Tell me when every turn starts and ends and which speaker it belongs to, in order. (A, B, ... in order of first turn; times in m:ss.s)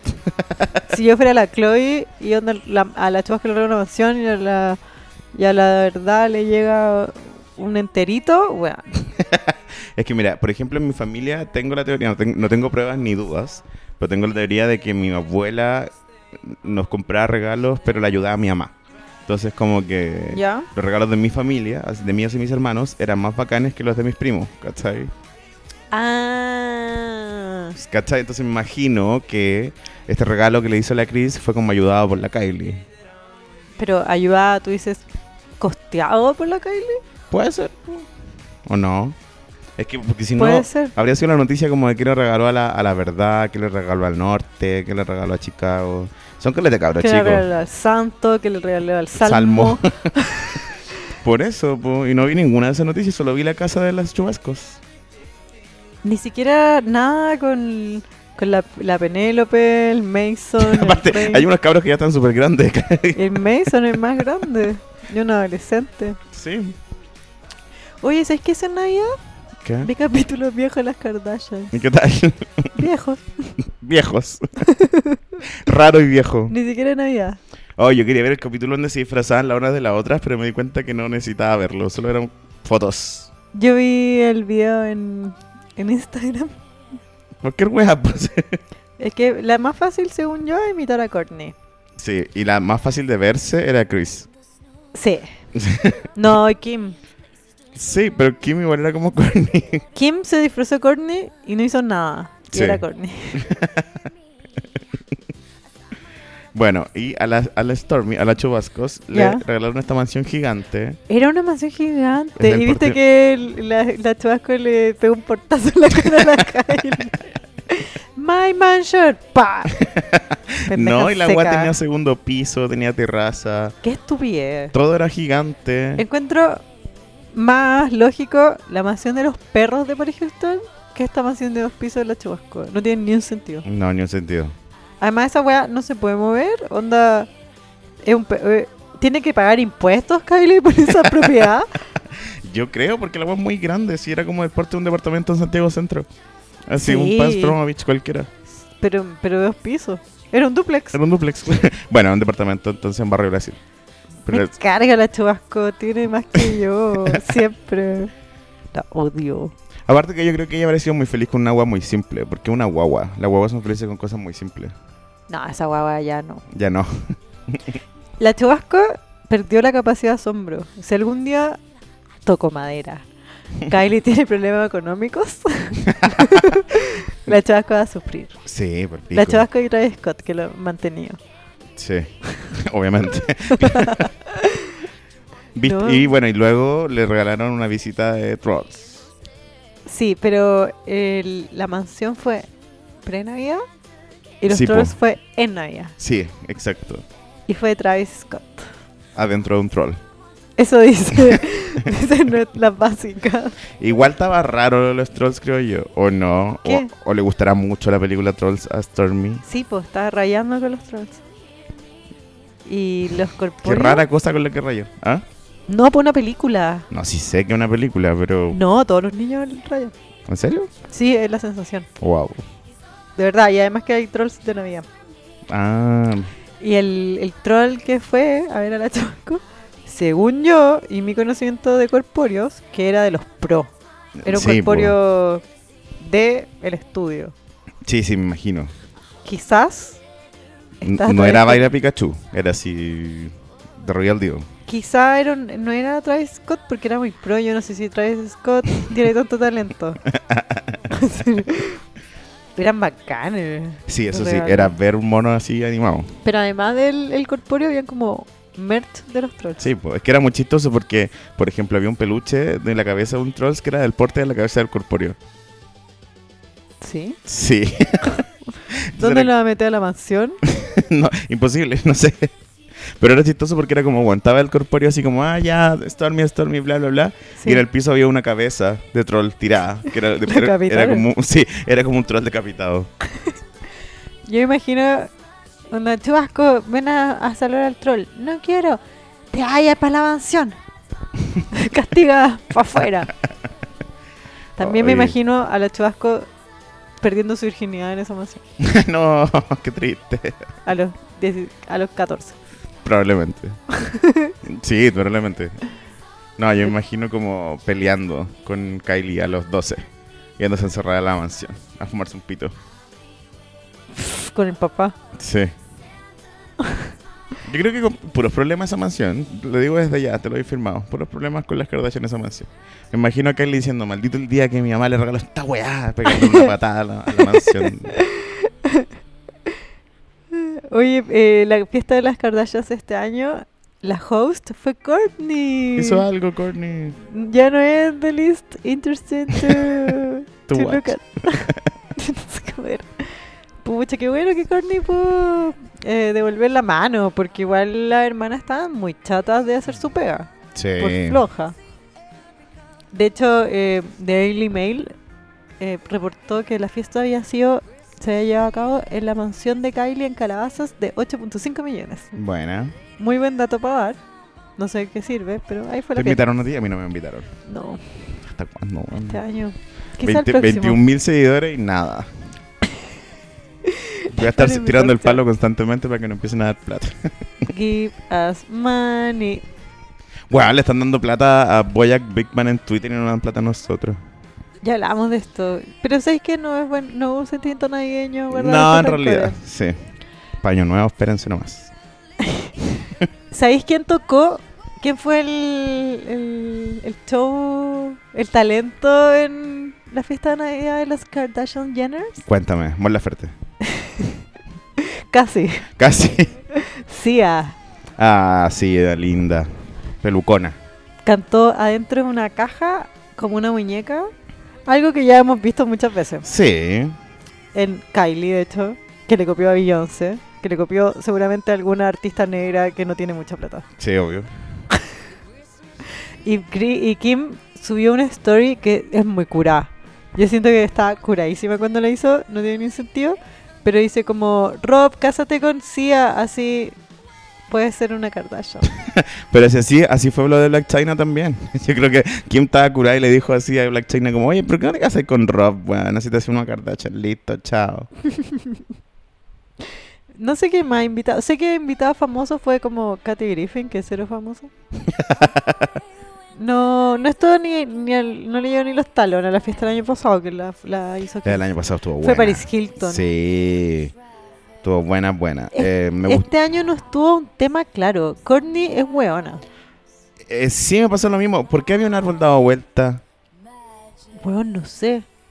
0:00.1-0:00.8 A
0:00.9-0:04.8 B
0:05.3-0:08.9 B
0:09.0-0:18.8 A
0:19.3-0:25.1 A
0:20.3-0:20.7 B
0:25.9-0:27.8 B
0:27.8-0:32.8 A
0:33.8-0:35.0 B
0:35.6-0:37.0 B
0:37.3-0:38.1 A
0:38.7-0:39.2 A
0:39.8-0:47.5 A
0:40.4-0:40.9 B
0:47.0-0:50.6 B
0:49.2-0:50.6 A
0:51.2-0:54.8 A
0:56.0-1:01.5 B
1:00.6-1:03.7 A
1:03.2-1:06.2 B
1:06.3-1:06.8 A
1:08.0-1:09.2 B
1:09.6-1:09.9 A
1:09.8-1:11.8 B
1:11.7-1:12.8 A
1:12.8-1:13.5 B
1:13.7-1:14.7 A
1:14.6-1:15.4 B
1:15.5-1:16.6 A
1:16.5-1:17.4 B
1:17.8-1:23.3 A
1:23.5-1:26.6 B
1:27.4-1:28.6 A
1:29.0-1:31.6 B
1:32.0-1:34.3 A
1:34.9-1:35.3 B
1:35.6-1:36.0 A
1:36.2-1:37.0 B
1:37.8-1:39.8 A
1:40.0-1:43.5 B
1:42.5-1:42.8 A
1:43.4-1:43.9 A
1:46.5-1:51.0 A
1:49.1-1:49.4 B
1:51.1-1:59.8 B
1:52.4-1:53.0 A
1:59.8-2:03.8 A
2:00.7-2:01.7 B
2:03.8-2:04.8 B
2:04.7-2:06.0 A
2:06.0-2:06.6 B
2:07.3-2:13.6 B
2:13.6-2:14.6 A
2:15.0-2:17.3 B
2:18.0-2:21.8 B
2:22.1-2:26.1 A
2:26.7-2:28.3 A
2:26.8-2:27.6 B
2:28.8-2:31.0 B
2:30.9-2:33.6 A
2:34.3-2:34.5 A
2:34.3-2:38.1 B
2:36.4-2:37.4 A
2:38.7-2:39.5 B
2:39.9-2:44.7 A
2:45.3-2:46.4 B
2:46.5-2:47.8 A
2:48.2-2:51.6 B
2:52.2-2:53.1 B
2:53.6-2:58.4 B
2:55.9-2:56.5 A
2:58.5-2:59.5 A
2:59.1-3:01.2 B
3:01.8-3:04.1 A
3:03.5-3:04.8 B
3:05.6-3:09.1 A
3:05.6-3:06.1 B
3:09.9-3:12.5 B
3:13.0-3:13.6 B
3:14.4-3:16.0 B
3:14.5-3:15.0 A
3:16.0-3:17.0 A
3:17.5-3:18.7 B
3:19.2-3:20.0 A
3:20.6-3:23.6 B
3:23.8-3:29.4 A
3:26.6-3:26.9 B
3:29.4-3:31.2 B
3:32.7-3:34.0 B
3:33.6-3:35.2 A
3:35.7-3:36.9 B
3:36.9-3:38.6 A
3:38.5-3:39.9 B
3:40.3-3:40.7 A
3:40.9-3:41.9 B
3:42.0-3:42.4 A
3:43.2-3:44.9 B
3:45.5-3:46.3 A
3:46.6-3:53.7 B
3:54.2-3:55.0 A
3:54.2-3:55.4 B
3:56.0-3:57.3 B
3:57.8-3:58.7 A
3:59.2-4:00.0 B
4:00.8-4:01.6 B
4:00.8-4:04.5 A
4:04.7-4:10.0 B
4:10.1-4:10.8 A
4:10.9-4:11.8 B
4:12.6-4:14.8 B
4:13.9-4:16.2 A
4:16.2-4:19.6 B
4:19.6-4:25.2 A
4:26.8-4:27.2 B
4:27.3-4:29.3 A
4:29.0-4:30.4 B
4:30.4-4:32.3 A
4:33.0-4:42.9 A
4:37.4-4:37.6 B
4:40.2-4:41.1 B
4:44.3-4:45.1 B
4:45.7-4:48.8 B
4:49.3-4:50.6 B
4:51.5-4:53.1 B
4:54.6-4:55.2 A
4:54.6-4:56.3 B
4:57.0-4:58.4 B
4:58.6-5:00.5 A
5:00.6-5:02.4 B
5:02.8-5:03.6 A
5:03.7-5:04.4 B
5:04.4-5:05.6 A
5:06.4-5:09.9 A
5:10.4-5:12.6 A
5:13.9-5:15.0 B
5:15.2-5:15.5 A
5:16.6-5:16.9 B
5:17.4-5:28.0 A
5:26.1-5:26.5 B
5:27.2-5:28.9 B
5:30.3-5:36.1 B
5:35.8-5:37.0 A
5:37.0-5:51.6 B
5:39.4-5:39.8 A
5:40.5-5:41.6 A
5:50.6-5:51.2 A
5:52.9-5:54.9 B
5:55.6-6:02.1 B
6:02.1-6:02.8 A
6:03.0-6:04.0 B
6:04.6-6:06.2 B
6:06.0-6:07.3 A
6:07.5-6:08.0 B
6:08.2-6:09.2 A
6:09.1-6:10.8 B
6:10.0-6:12.1 A
6:13.6-6:15.2 B
6:14.1-6:17.1 A
6:17.4-6:19.4 B
6:20.3-6:24.0 A
6:24.6-6:29.4 B
6:28.3-6:29.8 A
6:30.4-6:31.7 A
6:32.2-6:32.5 B
6:33.3-6:42.2 B
6:42.3-6:43.3 A
6:43.6-6:44.2 B
6:44.8-6:45.7 B
6:45.8-6:46.4 A
6:46.5-6:47.6 B
6:48.0-6:50.6 A
6:51.0-6:54.1 B
6:54.7-6:56.3 B
6:56.2-6:57.0 A
6:57.5-7:03.7 B
7:03.8-7:04.3 A
7:06.2-7:16.8 B
7:17.5-7:18.7 B
7:18.8-7:27.9 A
7:28.2-7:28.6 B
7:30.2-7:34.5 B
7:34.8-7:35.8 A
7:36.4-7:41.5 B
7:41.2-7:43.9 A
7:42.0-7:43.0 B
7:44.6-7:46.3 A
7:45.5-7:49.4 B
7:50.3-7:53.0 A
7:54.2-7:55.1 B